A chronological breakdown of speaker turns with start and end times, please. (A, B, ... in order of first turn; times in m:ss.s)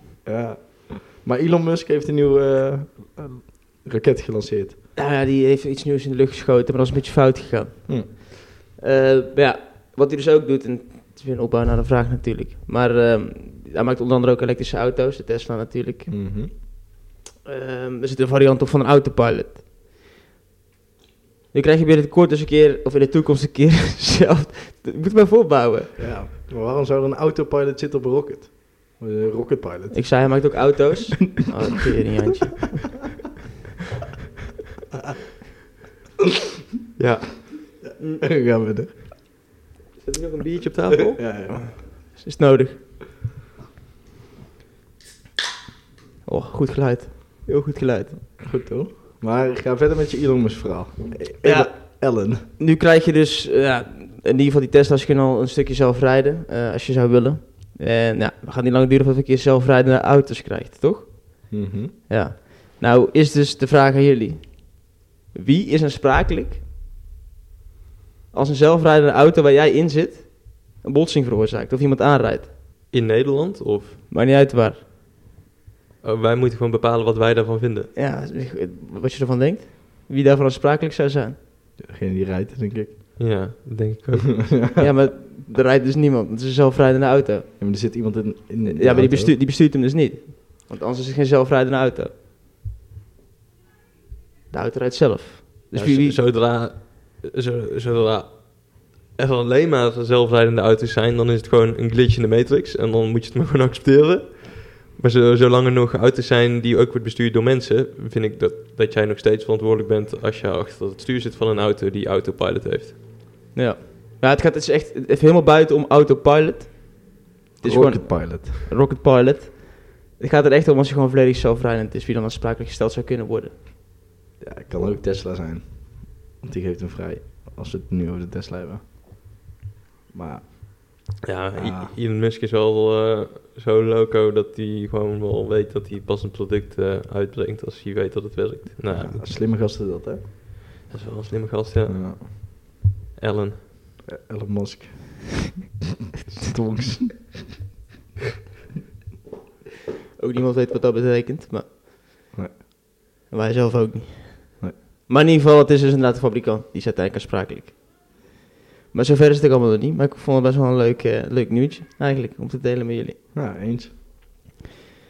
0:00.2-0:04.8 A
0:05.0-0:16.6 B
0:16.1-0:16.5 A
0:17.4-0:19.6 B
0:21.5-0:26.0 B
0:26.0-0:30.6 A
0:29.9-0:32.8 B
0:37.0-0:37.8 C
0:38.2-0:38.9 A
0:40.0-0:41.2 C
0:41.1-0:41.7 A
0:41.5-0:42.8 B
0:46.2-0:48.2 B
0:48.4-0:52.4 A
0:51.4-1:06.6 B
1:01.5-1:01.9 A
1:08.3-1:12.5 B
1:12.9-1:14.0 C
1:14.1-1:14.8 B
1:16.0-1:17.9 C
1:17.9-1:21.4 B
1:21.8-1:23.2 A
1:23.2-1:24.5 C
1:24.5-1:24.8 A
1:24.8-1:27.5 B
1:27.6-1:29.3 A
1:28.7-1:32.1 B
1:34.5-1:36.2 B
1:35.7-1:53.0 C
1:53.5-2:03.5 B
1:57.6-1:58.5 A
2:04.4-2:08.8 A
2:10.1-2:11.9 A
2:11.2-2:19.2 C
2:18.9-2:20.2 A
2:20.9-2:23.6 C
2:21.9-2:22.2 A
2:24.1-2:25.5 A
2:26.4-2:27.4 A
2:30.2-2:31.8 B
2:32.3-2:32.6 A
2:33.3-2:38.2 B
2:38.9-2:43.2 B
2:43.3-2:43.9 A